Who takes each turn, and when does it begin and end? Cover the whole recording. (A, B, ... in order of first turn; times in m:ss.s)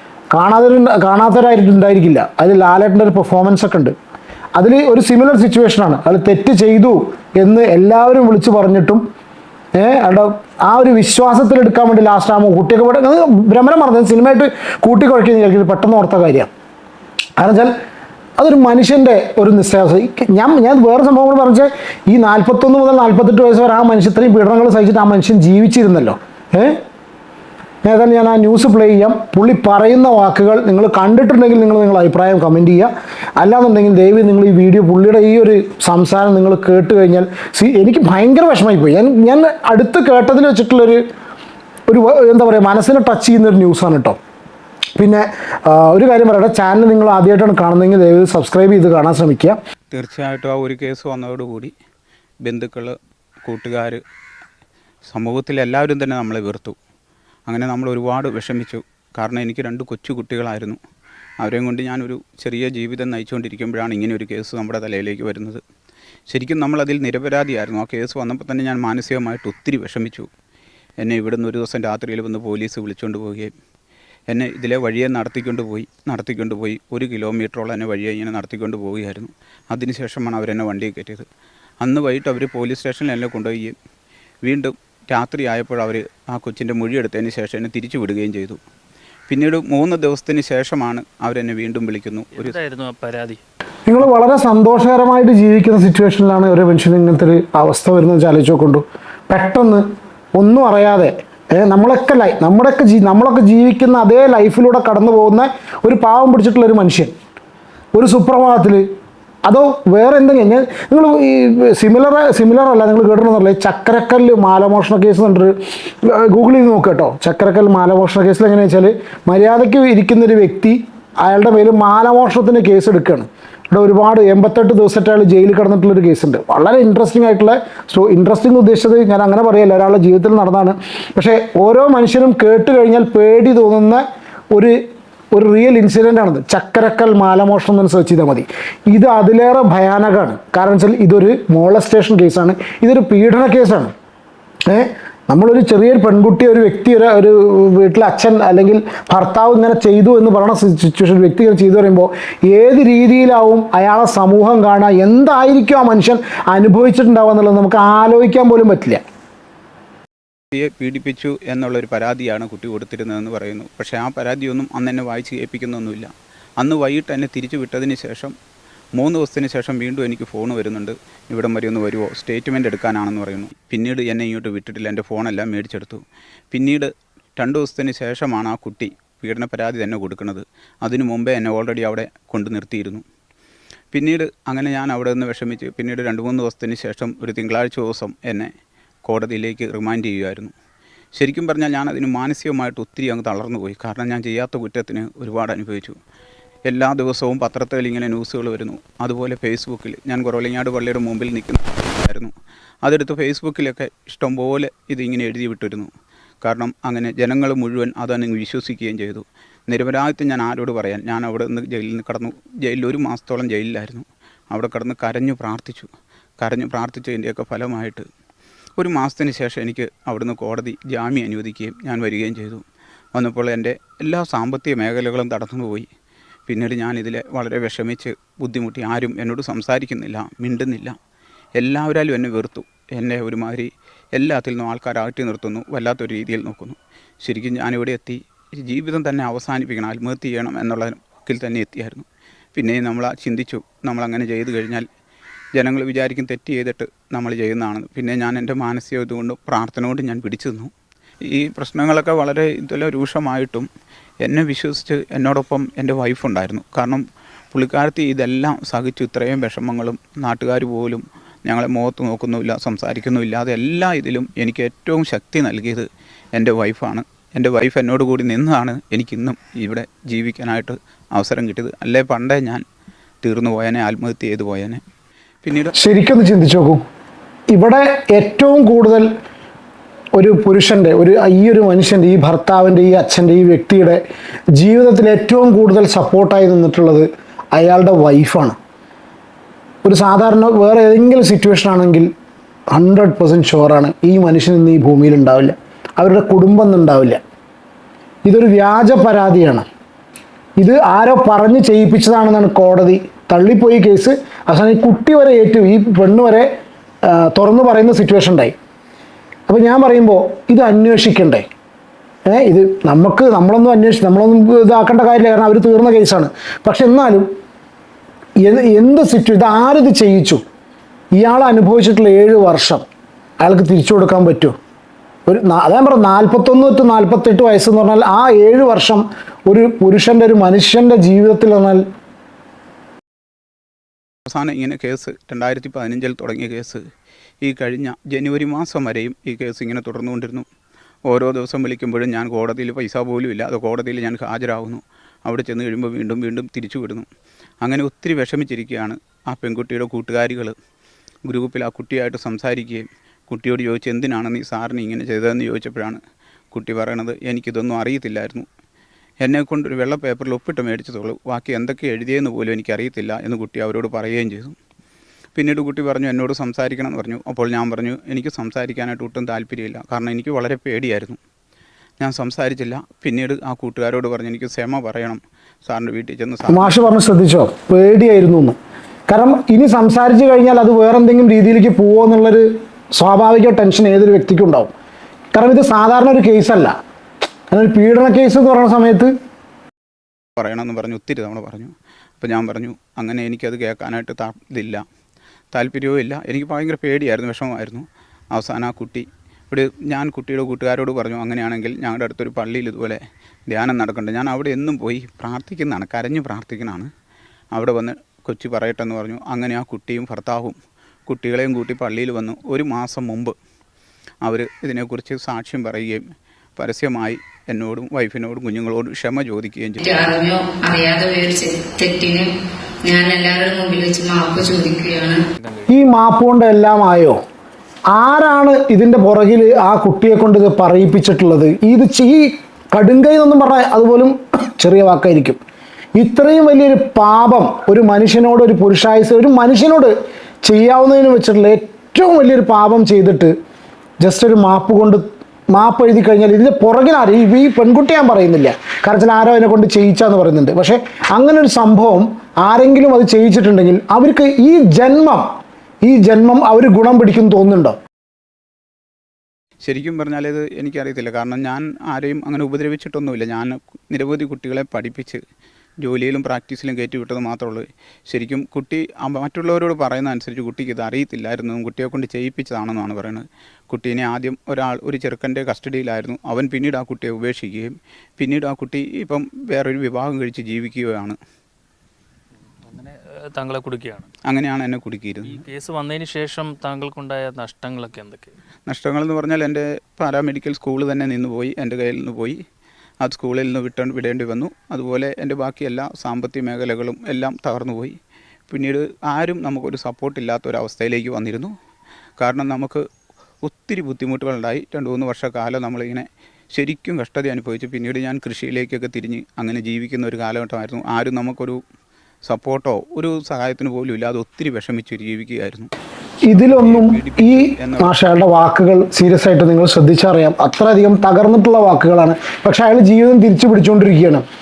0:00.3-0:03.9 A
0:04.6-0:09.0 A
0:09.7-0:16.5 A
0:17.4-0:17.7 A
0:18.4-0:26.8 A
0:27.8-0:41.0 A
0:41.9-0:44.2 A
0:45.0-0:49.6 A
0:49.9-0:51.7 B
0:52.4-0:54.0 B
0:55.0-0:56.8 B
0:57.5-1:00.8 B
1:01.4-1:05.6 B
1:06.3-1:10.3 B
1:11.0-1:13.5 B
1:14.3-1:21.3 B
1:21.8-1:23.8 B
1:24.4-1:28.6 B
1:29.3-1:32.6 B
1:32.3-1:33.4 C
1:33.8-1:47.1 A
1:47.9-1:48.8 A
1:49.4-2:14.7 A
2:15.3-2:23.9 A
2:24.7-2:39.0 A
2:40.5-2:48.3 B
2:49.0-3:03.0 B
3:03.9-3:08.5 B
3:09.0-3:10.5 B
3:11.1-3:16.0 B
3:16.7-3:22.3 B
3:22.8-3:25.9 B
3:26.4-3:35.9 B
3:36.4-3:38.1 B
3:38.8-3:42.6 B
3:43.1-3:45.9 B
3:46.5-3:51.0 B
3:51.6-4:04.8 B
4:05.5-4:10.7 B
4:11.3-4:13.7 B
4:14.2-4:32.6 B
4:33.2-4:34.8 B
4:35.4-4:35.7 B
4:35.8-4:36.8 A
4:37.5-4:39.1 A
4:40.2-4:44.0 A
4:44.6-4:48.6 A
4:49.8-4:52.1 A
4:52.7-4:57.2 A
4:58.2-4:59.6 A
5:00.6-5:06.5 A
5:07.0-5:08.5 A
5:09.5-5:11.4 A
5:12.2-5:17.3 A
5:18.4-5:20.4 A
5:21.2-5:22.8 A
5:23.4-5:24.6 A
5:25.3-5:31.8 A
5:34.3-5:36.8 B
5:37.4-5:40.4 B
5:41.0-5:47.1 B
5:47.6-5:50.5 B
5:51.2-5:56.0 B
5:56.5-5:58.5 B
5:59.2-6:04.6 B
6:05.3-6:11.2 B
6:12.0-6:17.0 B
6:16.5-6:18.6 A
6:19.1-6:24.7 A
6:25.3-6:26.8 A
6:27.5-6:29.1 A
6:30.4-6:34.8 B
6:35.5-6:46.9 B
6:47.5-6:53.3 B
6:54.2-6:56.0 B
6:56.6-6:59.8 B
6:59.8-7:02.3 D
7:02.8-7:05.2 D
7:05.4-7:05.7 C
7:05.7-7:07.2 A
7:07.9-7:15.4 A
7:16.0-7:19.9 A
7:20.4-7:23.3 A
7:24.0-7:35.3 A
7:35.8-7:37.8 A
7:39.6-7:45.2 B
7:45.8-8:01.2 B
8:02.6-8:04.1 C
8:04.2-8:05.4 B
8:05.2-8:08.3 C
8:08.7-8:12.4 B
8:13.0-8:18.0 B
8:18.5-8:21.5 B
8:22.2-8:22.8 B
8:23.4-8:31.6 B
8:32.2-8:35.7 B
8:36.3-8:44.2 A
8:36.4-8:37.9 B